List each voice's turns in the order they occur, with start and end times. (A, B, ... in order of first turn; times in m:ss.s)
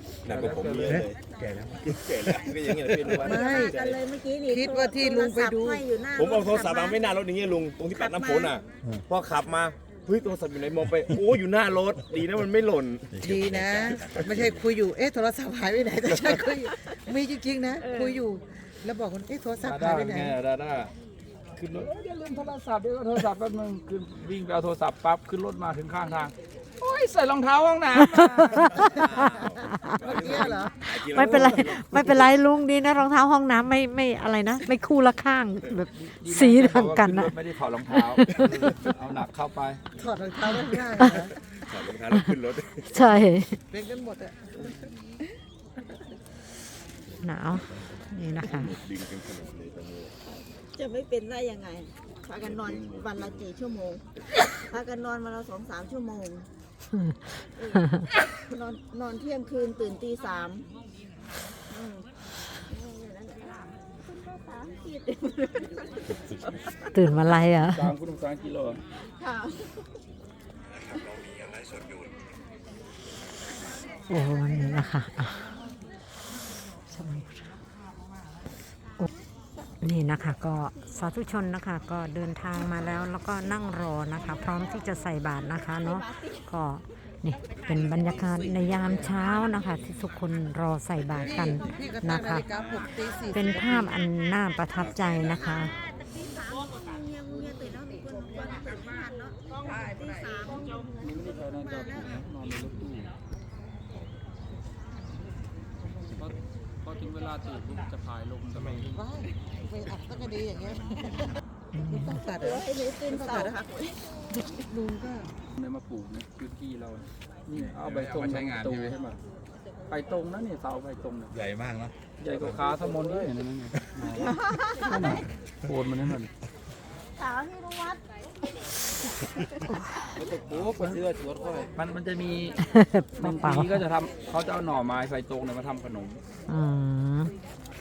0:00.2-0:01.2 A
0:00.3-0:01.0 B
0:00.3-0:03.2 C
0:01.8-0:04.0 A
0:03.1-0:03.7 D
0:03.3-0:07.1 E
0:04.5-0:05.9 D
0:06.1-0:13.3 A
0:07.9-0:08.6 E
0:13.1-0:14.4 C
0:13.2-0:20.3 D
0:13.8-0:14.6 A
0:17.8-0:18.2 E
0:19.6-0:20.9 B
0:21.5-0:28.8 B
0:28.6-0:30.0 F
0:28.6-0:32.3 A
0:29.9-0:30.8 D
0:30.8-0:37.3 F
0:35.9-0:39.8 B
0:37.9-0:38.7 F
0:40.0-0:41.3 D
0:40.5-0:41.2 F
0:41.7-0:43.0 A
0:42.9-0:43.6 F
0:43.7-0:44.7 D
0:47.2-0:48.8 F
0:48.4-0:50.1 A
0:50.2-0:54.0 E
0:52.4-0:53.4 A
0:54.7-0:56.4 E
0:56.9-0:58.0 F
0:57.6-0:57.9 E
0:58.4-1:00.7 E
1:01.7-1:02.1 E
1:02.7-1:06.6 E
1:06.9-1:07.9 F
1:07.7-1:08.8 B
1:09.1-1:10.0 E
1:10.9-1:11.9 C
1:14.1-1:15.5 F
1:16.9-1:17.5 F
1:19.8-1:32.5 F
1:25.8-1:26.4 E
1:31.2-1:33.9 D
1:33.3-1:35.7 F
1:34.9-1:42.0 E
1:41.0-1:43.1 B
1:46.2-1:49.0 B
1:48.5-1:48.8 C
1:48.9-1:51.0 D
1:51.7-1:52.1 F
1:51.9-1:53.6 D
1:52.2-1:54.6 E
1:54.6-1:55.3 D
1:55.6-1:59.2 B
1:57.5-1:59.0 C
1:59.9-2:01.3 B
2:01.3-2:02.6 C
2:02.2-2:06.3 B
2:07.2-2:08.0 E
2:10.5-2:11.0 B
2:10.5-2:10.8 C
2:11.7-2:12.6 B
2:12.6-2:13.8 F
2:13.2-2:16.2 B
2:16.5-2:17.3 F